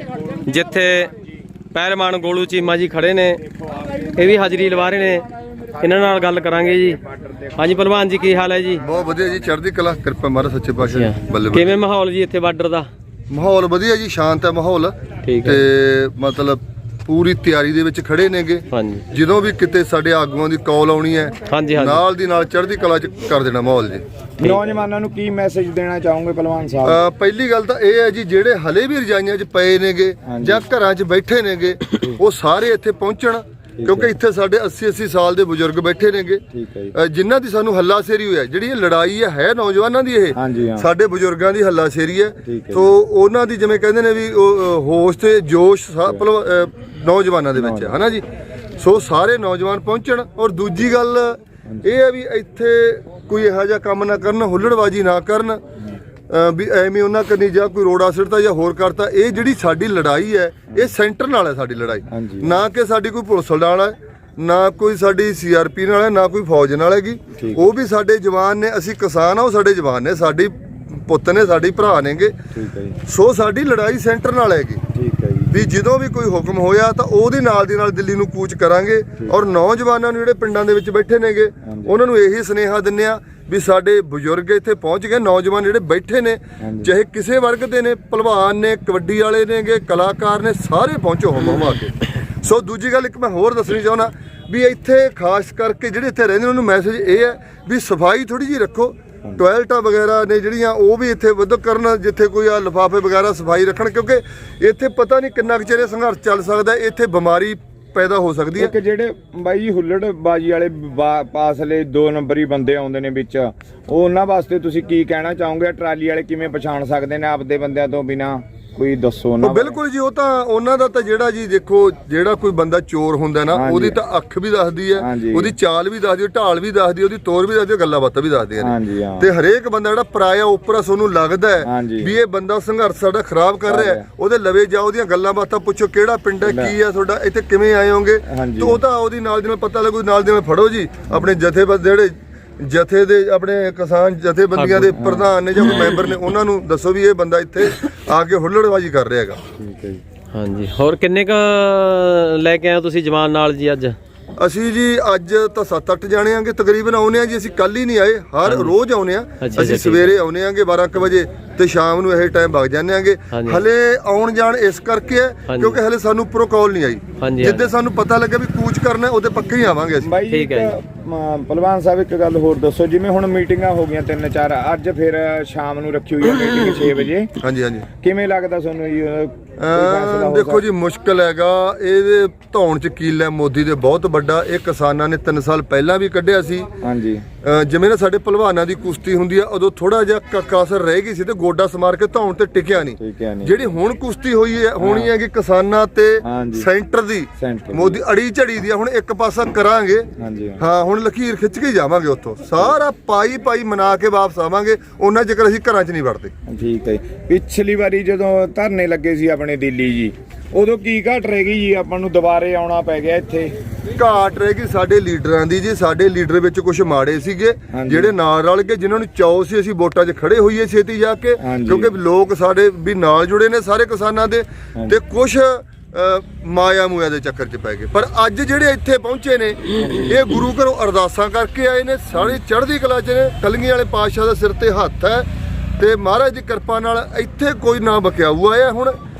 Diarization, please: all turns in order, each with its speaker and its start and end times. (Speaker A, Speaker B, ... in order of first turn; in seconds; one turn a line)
Speaker A: 0.4-1.1
Speaker A: 1.7-3.4
Speaker B: 3.5-4.6
Speaker A: 4.1-5.2
Speaker A: 5.8-7.0
Speaker B: 6.1-7.5
Speaker A: 7.5-8.8
Speaker C: 8.8-11.8
Speaker A: 10.8-12.9
Speaker C: 13.3-24.0
Speaker A: 15.2-15.6
Speaker A: 18.7-19.0
Speaker A: 21.5-22.0
Speaker B: 24.4-27.0
Speaker C: 26.8-48.2
Speaker B: 30.3-30.6
Speaker B: 33.8-34.1
Speaker B: 36.5-37.0
Speaker B: 40.3-40.9
Speaker B: 42.4-42.9
Speaker B: 47.6-47.9
Speaker C: 48.8-55.6
Speaker C: 56.3-72.3
Speaker B: 62.1-62.5
Speaker B: 67.4-67.7
Speaker B: 72.5-73.0
Speaker C: 73.0-74.8
Speaker B: 74.9-75.5
Speaker C: 75.5-108.7
Speaker B: 81.7-81.9
Speaker B: 86.6-86.9
Speaker B: 108.6-119.8
Speaker C: 119.4-149.4
Speaker B: 123.5-124.0
Speaker B: 125.0-125.5
Speaker B: 128.6-129.3
Speaker B: 131.6-132.1
Speaker B: 133.7-134.0
Speaker B: 136.4-136.7
Speaker B: 138.3-138.8
Speaker A: 144.6-144.9
Speaker B: 144.9-145.3
Speaker B: 149.6-150.0
Speaker A: 150.3-153.9
Speaker C: 154.4-170.1
Speaker A: 158.4-158.7
Speaker A: 159.4-160.1
Speaker A: 163.3-163.6
Speaker A: 165.5-165.8
Speaker A: 167.2-167.7
Speaker B: 170.0-177.3
Speaker A: 170.3-170.7
Speaker C: 177.4-177.9
Speaker B: 178.0-180.6
Speaker C: 179.6-186.7
Speaker B: 186.8-187.2
Speaker C: 187.4-200.1
Speaker B: 193.0-193.7
Speaker B: 194.8-195.1
Speaker B: 196.2-196.7
Speaker B: 197.4-198.0
Speaker B: 200.2-200.6
Speaker C: 200.6-206.3
Speaker B: 206.5-213.5
Speaker C: 213.9-235.3
Speaker B: 217.7-218.1
Speaker B: 221.4-221.9
Speaker B: 229.8-230.2
Speaker C: 235.8-238.9